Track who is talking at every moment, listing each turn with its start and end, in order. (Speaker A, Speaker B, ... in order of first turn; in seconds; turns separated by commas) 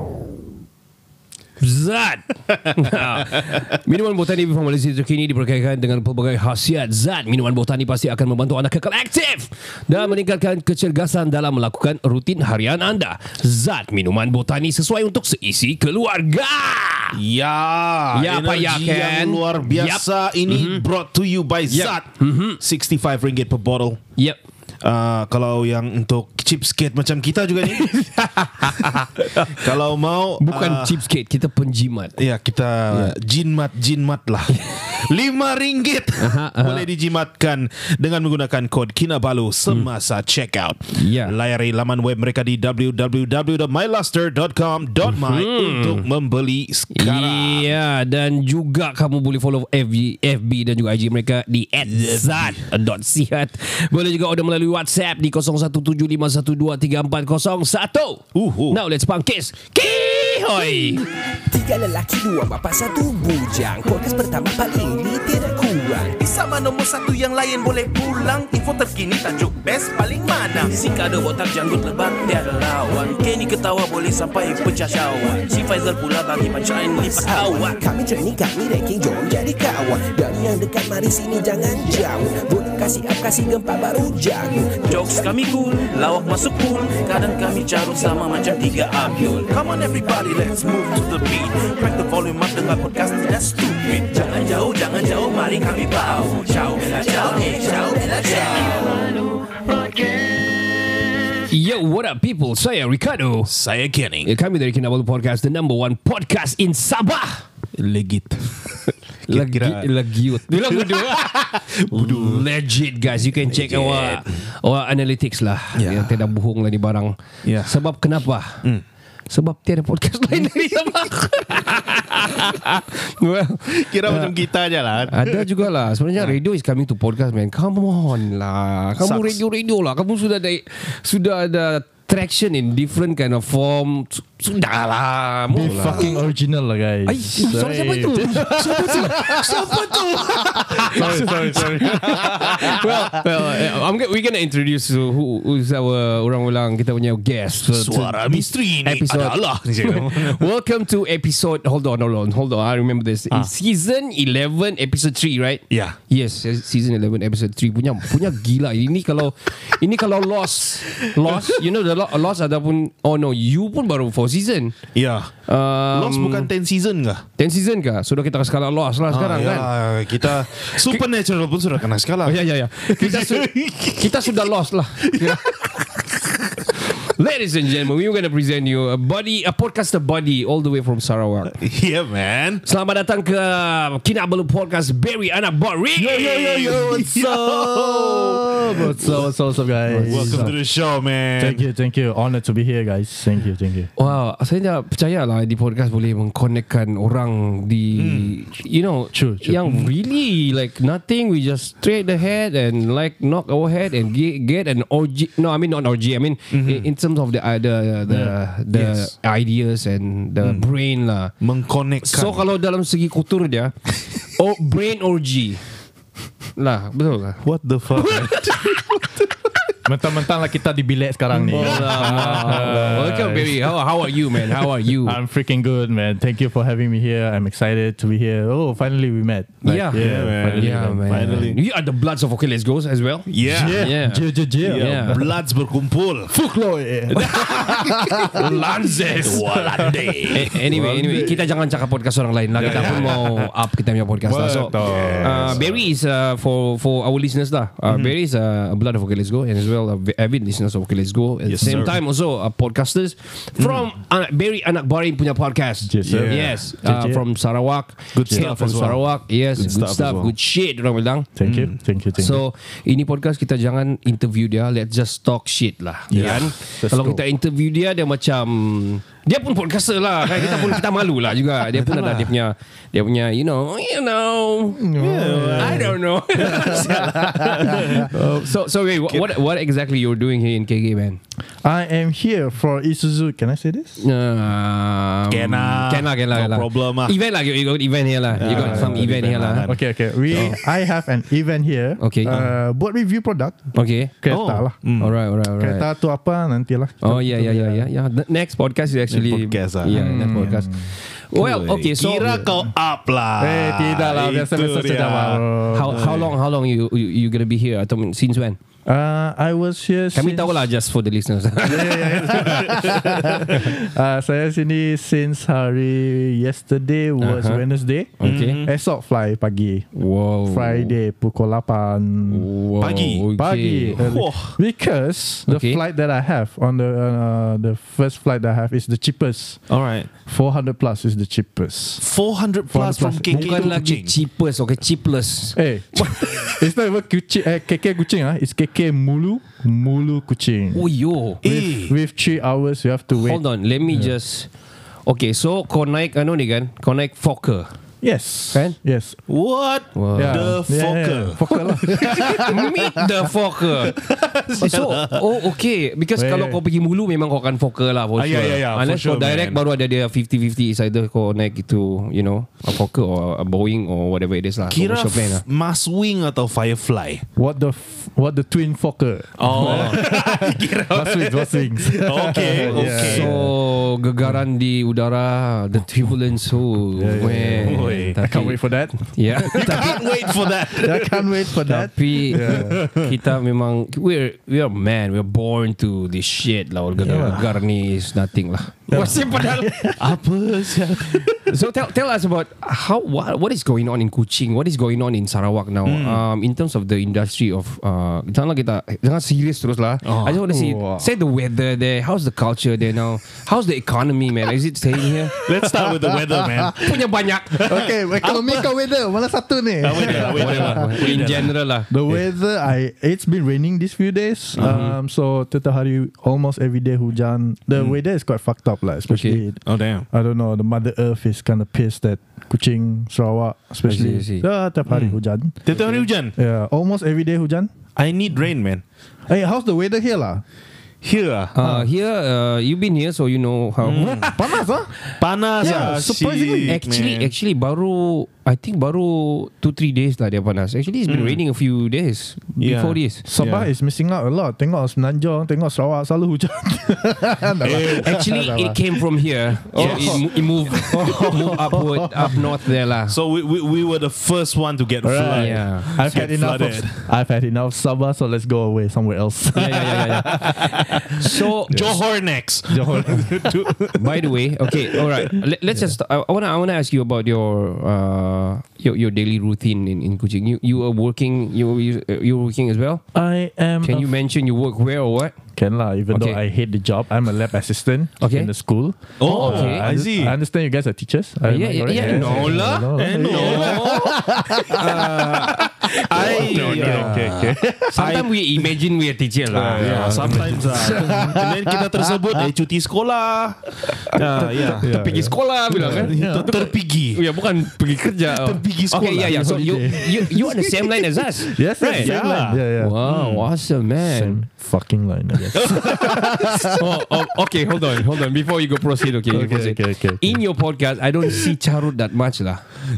Speaker A: 1.6-17.2, Speaker B: 17.1-24.0, Speaker A: 18.1-20.8, Speaker A: 21.7-22.6, Speaker B: 24.8-28.1, Speaker A: 27.6-29.7, Speaker B: 28.6-31.0, Speaker A: 30.4-32.2, Speaker B: 32.2-47.7, Speaker A: 32.9-33.1, Speaker A: 34.5-34.8, Speaker A: 36.2-36.9, Speaker A: 40.9-41.3, Speaker A: 45.2-46.0, Speaker A: 46.9-61.1, Speaker B: 51.9-52.6, Speaker B: 58.3-58.8, Speaker C: 61.5-66.1, Speaker D: 66.1-77.9, Speaker C: 77.8-84.8, Speaker D: 84.7-99.0, Speaker A: 101.5-103.5, Speaker B: 103.5-104.3, Speaker A: 104.2-107.4, Speaker B: 107.8-109.9, Speaker A: 109.3-118.7, Speaker B: 110.5-112.5, Speaker B: 113.5-114.4, Speaker B: 115.8-116.3, Speaker B: 117.4-117.8, Speaker A: 119.3-124.3, Speaker B: 123.7-125.5, Speaker A: 125.1-136.2, Speaker B: 129.0-129.4, Speaker E: 135.5-139.8, Speaker B: 135.7-136.0, Speaker A: 137.1-139.8, Speaker B: 138.5-142.7, Speaker A: 140.8-164.8, Speaker E: 140.8-142.8, Speaker B: 147.7-150.4, Speaker B: 155.7-156.0, Speaker B: 164.9-165.4, Speaker A: 165.4-166.5, Speaker B: 165.9-167.2, Speaker A: 167.4-171.0, Speaker B: 169.1-174.3, Speaker A: 172.2-175.5, Speaker B: 175.1-176.6, Speaker A: 176.8-181.6, Speaker B: 181.6-182.6, Speaker A: 182.7-186.3, Speaker E: 186.0-190.7, Speaker B: 186.1-188.9, Speaker A: 189.9-190.6, Speaker B: 190.1-191.7, Speaker E: 191.4-193.9, Speaker A: 194.0-211.3, Speaker B: 197.9-198.4, Speaker E: 199.1-199.7, Speaker B: 206.5-206.9, Speaker E: 208.1-208.3, Speaker B: 208.7-209.1, Speaker B: 210.4-210.7, Speaker B: 211.4-212.5, Speaker A: 212.0-215.7, Speaker A: 216.6-217.4, Speaker B: 217.4-218.9, Speaker A: 218.0-218.7, Speaker E: 219.8-223.6, Speaker A: 221.5-225.2, Speaker B: 221.5-222.8, Speaker E: 225.0-231.5, Speaker A: 229.6-235.2, Speaker B: 229.9-231.6, Speaker B: 233.3-234.0, Speaker E: 233.5-235.3, Speaker B: 234.6-236.4, Speaker E: 236.3-238.6, Speaker B: 237.1-240.5, Speaker A: 238.3-239.4, Speaker E: 239.1-241.4, Speaker A: 240.3-261.3, Speaker E: 242.6-243.2, Speaker B: 242.6-243.5, Speaker E: 244.2-245.6, Speaker B: 244.3-245.9, Speaker B: 251.4-252.0, Speaker E: 251.6-251.9, Speaker B: 253.6-253.9, Speaker E: 255.8-257.2, Speaker B: 256.1-256.6, Speaker B: 258.1-260.3, Speaker E: 258.3-259.0, Speaker E: 261.4-262.4, Speaker B: 261.4-261.8, Speaker A: 262.2-274.9, Speaker E: 266.1-267.2, Speaker B: 266.1-266.5, Speaker B: 270.4-270.8, Speaker B: 271.8-272.3, Speaker E: 274.8-278.1, Speaker B: 275.0-278.1, Speaker A: 275.6-277.1, Speaker A: 277.7-281.2, Speaker E: 281.6-284.0, Speaker A: 284.0-289.7, Speaker B: 285.3-287.1, Speaker B: 288.4-290.6, Speaker E: 288.4-294.8, Speaker A: 292.0-292.4, Speaker B: 292.3-292.5, Speaker A: 293.7-294.1, Speaker B: 294.3-295.2, Speaker A: 294.8-295.9, Speaker E: 295.6-297.9, Speaker A: 297.0-302.5, Speaker B: 299.1-300.2, Speaker E: 299.9-300.9, Speaker B: 301.3-306.3, Speaker E: 303.4-306.1, Speaker A: 305.7-308.6, Speaker E: 308.9-310.7, Speaker A: 310.1-312.7, Speaker E: 311.6-319.9, Speaker B: 312.3-313.6, Speaker A: 317.2-317.6, Speaker A: 318.2-318.6, Speaker B: 318.2-318.7, Speaker A: 319.9-320.9, Speaker E: 320.5-322.5, Speaker A: 322.3-324.0, Speaker B: 322.8-323.3, Speaker E: 323.4-329.7, Speaker B: 324.0-324.6, Speaker A: 325.5-325.8, Speaker B: 329.7-330.1, Speaker E: 330.3-332.0, Speaker B: 332.0-334.1, Speaker E: 332.7-333.8, Speaker A: 333.3-336.5, Speaker E: 335.6-340.9, Speaker A: 340.7-341.4, Speaker B: 341.4-341.9, Speaker E: 341.4-344.1, Speaker A: 343.2-344.5, Speaker A: 345.1-347.7, Speaker E: 348.0-349.2, Speaker B: 349.3-352.4, Speaker A: 349.9-350.5, Speaker E: 350.1-352.9, Speaker A: 352.3-354.0, Speaker B: 354.0-355.2, Speaker A: 354.6-365.4, Speaker E: 356.2-356.6, Speaker B: 358.2-359.6, Speaker B: 364.7-367.2, Speaker E: 367.4-373.6, Speaker B: 369.4-373.4, Speaker A: 372.6-380.0, Speaker E: 377.0-380.1, Speaker B: 377.6-378.2, Speaker B: 379.6-383.1, Speaker E: 380.7-382.9, Speaker A: 381.9-389.9, Speaker B: 387.0-387.4, Speaker E: 387.0-387.5, Speaker E: 388.9-390.1, Speaker B: 388.9-389.2, Speaker B: 390.0-391.4, Speaker A: 391.5-405.3, Speaker B: 395.9-396.2, Speaker B: 400.0-400.4, Speaker E: 400.5-401.1, Speaker E: 405.3-406.7, Speaker B: 405.4-407.0, Speaker A: 406.8-407.6, Speaker B: 407.6-408.5, Speaker E: 407.6-425.7, Speaker B: 409.8-411.6, Speaker A: 410.1-411.9, Speaker B: 414.6-414.9, Speaker A: 414.6-414.9, Speaker A: 419.1-419.4, Speaker B: 419.6-420.1, Speaker A: 423.9-424.5, Speaker B: 424.9-426.4, Speaker A: 425.7-426.1, Speaker E: 426.4-427.7, Speaker B: 428.0-428.8, Speaker E: 429.3-430.4, Speaker B: 431.0-431.6, Speaker A: 431.6-434.2, Speaker E: 431.6-431.9, Speaker B: 433.8-434.4, Speaker E: 433.9-434.9, Speaker B: 435.2-437.3, Speaker E: 435.6-436.8, Speaker A: 435.6-435.9, Speaker A: 436.7-443.2, Speaker B: 441.1-441.4, Speaker B: 442.6-443.7, Speaker E: 443.2-448.8, Speaker B: 447.6-448.2, Speaker A: 448.0-453.1, Speaker B: 449.7-450.5, Speaker E: 449.7-452.4, Speaker B: 453.1-457.1, Speaker E: 455.0-460.6, Speaker A: 455.2-455.9, Speaker A: 459.6-462.0, Speaker B: 461.7-464.2, Speaker E: 462.7-463.5, Speaker A: 463.9-473.0, Speaker E: 473.1-474.1, Speaker A: 473.8-475.4, Speaker E: 475.6-485.3, Speaker A: 476.1-476.4, Speaker A: 478.2-478.5, Speaker B: 479.2-480.4, Speaker A: 479.2-479.9, Speaker A: 481.5-491.2, Speaker B: 482.0-484.2, Speaker B: 486.1-488.6, Speaker E: 486.2-487.9, Speaker B: 489.5-494.9, Speaker E: 489.8-491.8, Speaker A: 494.4-502.1, Speaker E: 494.4-496.7, Speaker B: 495.9-497.2, Speaker B: 498.3-499.9, Speaker E: 498.9-502.9, Speaker B: 502.0-503.5, Speaker A: 502.8-504.4, Speaker E: 504.0-506.6, Speaker A: 505.9-512.7, Speaker E: 509.2-510.4